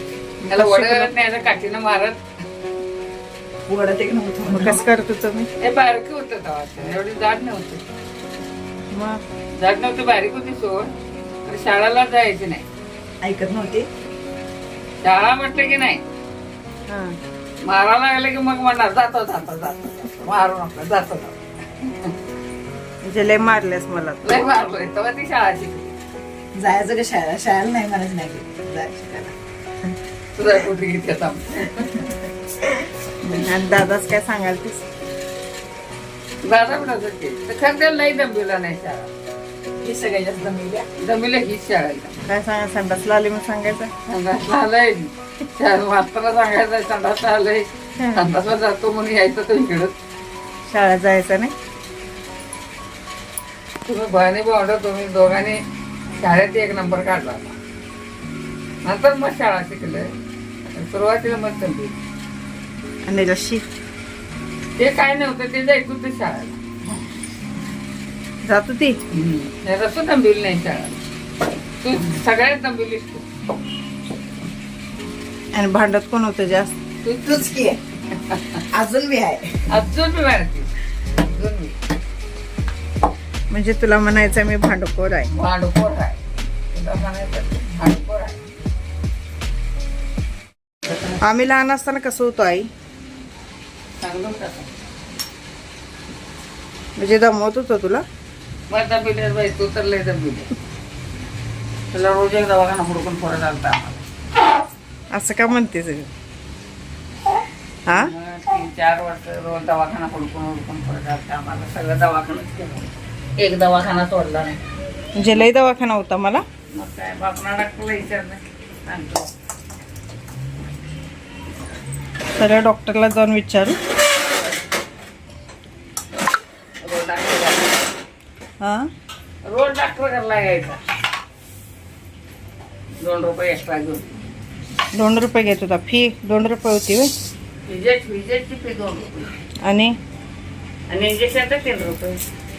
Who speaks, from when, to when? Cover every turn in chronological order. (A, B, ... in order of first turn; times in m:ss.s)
0:00.4-0:01.1 A
0:00.5-0:02.2 B
0:03.7-0:04.8 C
0:04.5-0:05.5 A
0:05.6-0:07.8 B
0:08.9-0:09.2 A
0:09.6-0:10.9 B
0:11.4-0:12.6 B
0:13.2-0:13.9 C
0:15.0-0:16.0 B
0:16.9-0:17.2 A
0:17.6-0:22.1 B
0:23.0-0:24.2 A
0:24.2-0:25.9 B
0:26.5-0:29.3 C
0:30.3-0:32.1 B
0:33.2-0:34.8 A
0:36.4-0:39.1 B
0:39.8-0:40.9 C
0:41.0-0:42.2 B
0:42.2-0:43.9 A
0:44.0-0:49.9 B
0:48.0-0:48.2 A
0:50.6-0:51.5 A
0:53.8-0:55.6 B
0:56.2-0:57.6 B
0:58.8-1:00.1 B
1:00.7-1:02.0 B
1:03.0-1:03.7 A
1:04.8-1:06.6 B
1:08.4-1:09.0 A
1:09.1-1:11.0 B
1:11.8-1:13.2 B
1:15.5-1:16.7 A
1:17.1-1:17.5 B
1:17.2-1:17.8 C
1:18.1-1:18.6 B
1:18.6-1:19.6 C
1:19.7-1:21.8 B
1:23.5-1:25.3 A
1:25.3-1:26.2 B
1:26.7-1:28.4 B
1:31.2-1:32.7 A
1:34.0-1:34.7 B
1:37.0-1:38.0 A
1:38.7-1:40.5 B
1:41.9-1:44.0 B
1:45.1-1:46.1 A
1:47.8-1:48.1 A
1:47.9-1:54.6 B
1:55.2-1:56.4 A
1:56.7-1:59.3 B
2:02.4-2:03.8 A
2:06.8-2:07.8 B
2:08.6-2:08.9 A
2:09.4-2:10.8 B
2:13.0-2:14.1 B
2:14.9-2:17.1 A
2:17.6-2:19.3 B
2:19.6-2:19.9 A
2:20.9-2:22.2 B